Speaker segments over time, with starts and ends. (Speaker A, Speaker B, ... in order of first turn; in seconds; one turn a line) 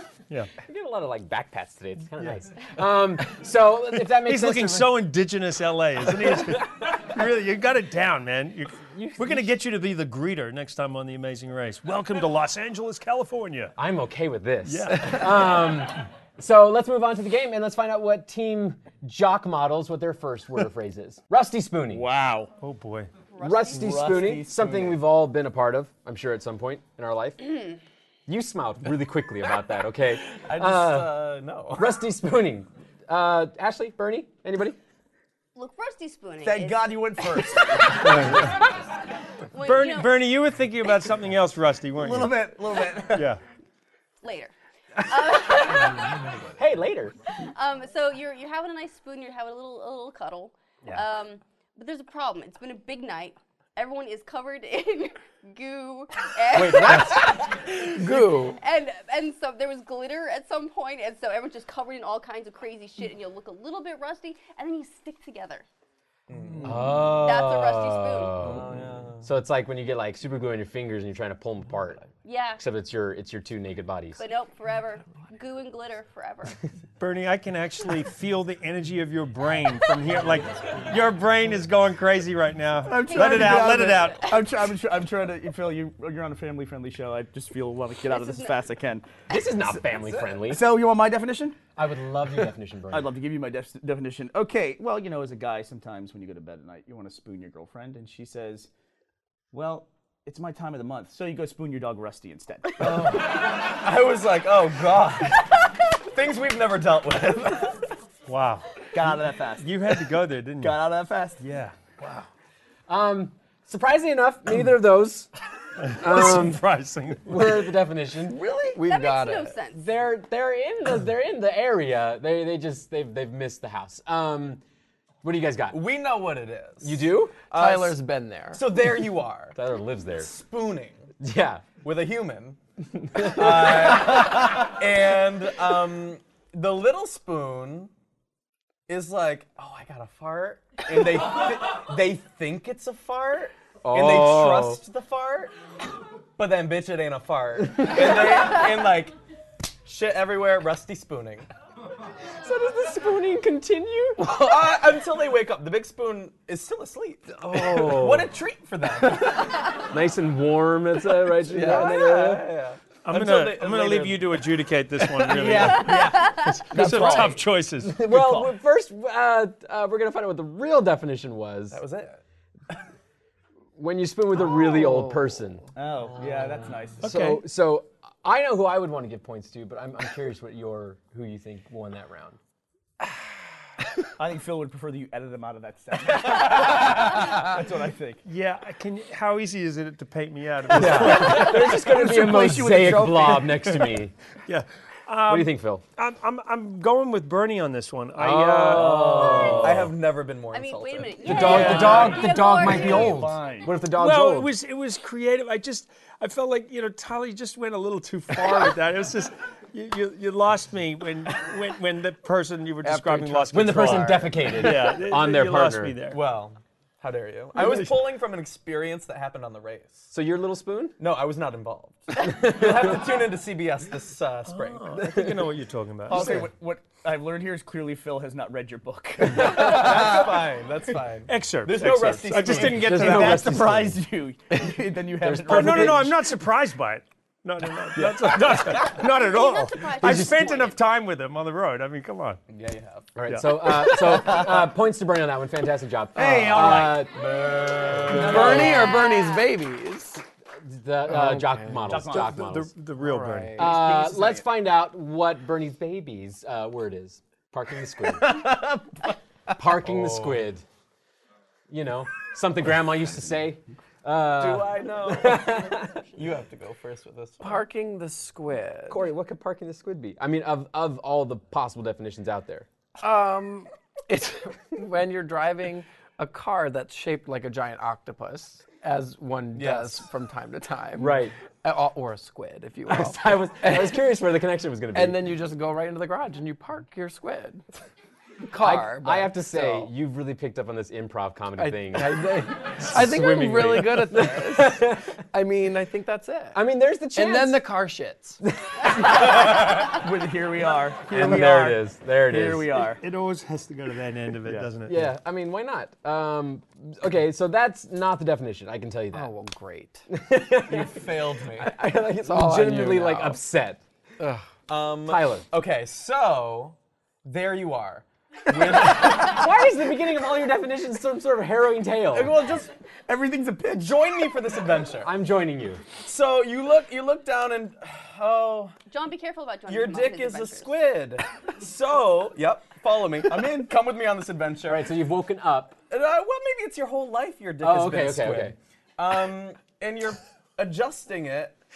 Speaker A: 0.6-5.0
Speaker B: 4.1-13.7
Speaker A: 8.9-9.5
Speaker A: 13.8-22.0
Speaker B: 14.6-15.6
Speaker C: 21.9-22.5
Speaker B: 22.6-23.1
Speaker D: 23.3-24.0
Speaker A: 23.4-27.7
Speaker C: 23.8-24.9
Speaker A: 28.3-34.8
Speaker E: 30.2-32.0
Speaker D: 35.5-37.4
Speaker C: 36.4-38.5
Speaker B: 38.1-38.5
Speaker D: 39.5-40.3
Speaker B: 39.6-42.5
Speaker C: 42.0-43.3
Speaker B: 43.1-43.4
Speaker D: 44.2-46.2
Speaker A: 46.5-47.1
Speaker D: 47.4-57.7
Speaker A: 56.5-57.8
Speaker F: 58.0-58.6
Speaker D: 58.5-65.6
Speaker E: 66.3-67.2
Speaker A: 66.6-72.0
Speaker D: 67.1-68.5
Speaker E: 68.4-69.3
Speaker D: 72.2-72.6
Speaker A: 72.6-74.2
Speaker D: 74.2-76.6
Speaker B: 77.0-84.3
Speaker C: 82.8-89.0
Speaker D: 82.9-84.5
Speaker D: 88.0-88.6
Speaker A: 89.3-90.6
Speaker C: 90.3-91.6
Speaker A: 91.8-93.1
Speaker C: 92.9-98.7
Speaker C: 99.5-103.0
Speaker E: 102.8-107.8
Speaker B: 108.3-108.7
Speaker C: 108.9-110.0
Speaker B: 109.6-110.8
Speaker C: 110.6-111.4
Speaker B: 111.4-111.8
Speaker A: 112.9-115.3
Speaker B: 115.8-117.7
Speaker A: 115.9-116.6
Speaker A: 117.2-118.4
Speaker F: 118.7-119.5
Speaker D: 118.8-119.8
Speaker A: 119.7-124.6
Speaker A: 125.2-125.8
Speaker E: 125.7-128.0
Speaker A: 126.8-127.3
Speaker F: 127.5-128.7
Speaker E: 128.5-129.6
Speaker A: 129.5-130.3
Speaker E: 130.1-131.1
Speaker A: 131.2-131.7
Speaker E: 131.8-132.6
Speaker A: 133.0-134.0
Speaker E: 133.1-137.9
Speaker E: 138.9-145.5
Speaker A: 143.8-144.8
Speaker E: 146.4-149.1
Speaker E: 149.8-151.5
Speaker A: 152.4-154.5
Speaker E: 154.2-159.5
Speaker A: 157.3-158.3
Speaker A: 159.2-162.5
Speaker E: 161.5-164.5
Speaker F: 161.5-161.9
Speaker B: 163.0-168.0
Speaker C: 165.2-167.4
Speaker D: 165.6-166.6
Speaker A: 166.7-167.3
Speaker A: 167.8-171.8
Speaker C: 168.1-168.5
Speaker E: 171.7-172.2
Speaker A: 173.8-175.6
Speaker C: 175.7-177.0
Speaker B: 177.0-177.4
Speaker A: 177.0-182.4
Speaker C: 184.2-188.2
Speaker B: 188.2-191.7
Speaker A: 190.7-194.1
Speaker C: 190.8-194.0
Speaker B: 194.5-199.9
Speaker A: 195.3-195.8
Speaker A: 198.2-199.9
Speaker E: 198.7-202.2
Speaker D: 200.5-203.3
Speaker A: 201.2-204.5
Speaker C: 201.4-203.7
Speaker B: 203.9-216.2
Speaker F: 212.8-214.6
Speaker A: 213.5-216.0
Speaker E: 216.1-220.1
Speaker B: 217.6-217.9
Speaker A: 220.1-221.0
Speaker E: 221.0-225.4
Speaker A: 222.2-223.0
Speaker B: 224.5-226.4
Speaker C: 226.1-230.4
Speaker A: 226.1-226.4
Speaker E: 229.3-233.0
Speaker B: 231.3-233.6
Speaker C: 232.3-236.1
Speaker A: 232.6-234.0
Speaker A: 235.2-236.1
Speaker B: 235.4-242.4
Speaker E: 238.0-238.7
Speaker C: 238.0-238.8
Speaker D: 238.8-240.8
Speaker A: 240.0-240.4
Speaker E: 242.5-243.1
Speaker A: 243.1-247.2
Speaker B: 243.3-243.6
Speaker C: 246.2-247.0
Speaker F: 246.4-246.8
Speaker E: 247.1-248.9
Speaker A: 248.1-248.8
Speaker F: 248.1-250.2
Speaker C: 248.1-248.7
Speaker D: 248.5-249.5
Speaker A: 250.6-252.7
Speaker F: 251.1-252.0
Speaker C: 251.9-252.4
Speaker B: 252.1-253.8
Speaker F: 253.0-253.8
Speaker A: 253.6-258.5
Speaker A: 259.5-260.6
Speaker E: 259.7-260.4
Speaker A: 261.7-266.0
Speaker E: 264.4-267.6
Speaker F: 267.4-269.1
Speaker A: 268.9-272.6
Speaker F: 273.0-284.0
Speaker E: 279.5-280.1
Speaker A: 281.0-281.3
Speaker A: 282.9-285.2
Speaker F: 284.9-287.6
Speaker F: 288.4-289.9
Speaker A: 288.6-295.1
Speaker F: 291.6-296.6
Speaker A: 296.5-297.6
Speaker F: 297.1-298.4
Speaker A: 298.6-299.1
Speaker C: 298.9-303.0
Speaker A: 301.1-302.7
Speaker B: 302.9-305.1
Speaker A: 304.9-309.3
Speaker F: 309.1-310.1
Speaker A: 310.1-313.8
Speaker E: 310.6-311.7
Speaker F: 312.1-313.4
Speaker F: 314.2-314.5
Speaker E: 314.7-319.5
Speaker A: 315.0-315.4
Speaker A: 318.5-322.4
Speaker E: 322.1-325.1
Speaker A: 325.0-325.8
Speaker E: 326.0-328.7
Speaker D: 328.9-330.8
Speaker E: 329.7-335.0
Speaker C: 333.3-333.7
Speaker A: 334.6-335.8
Speaker E: 335.9-341.6
Speaker A: 337.6-338.6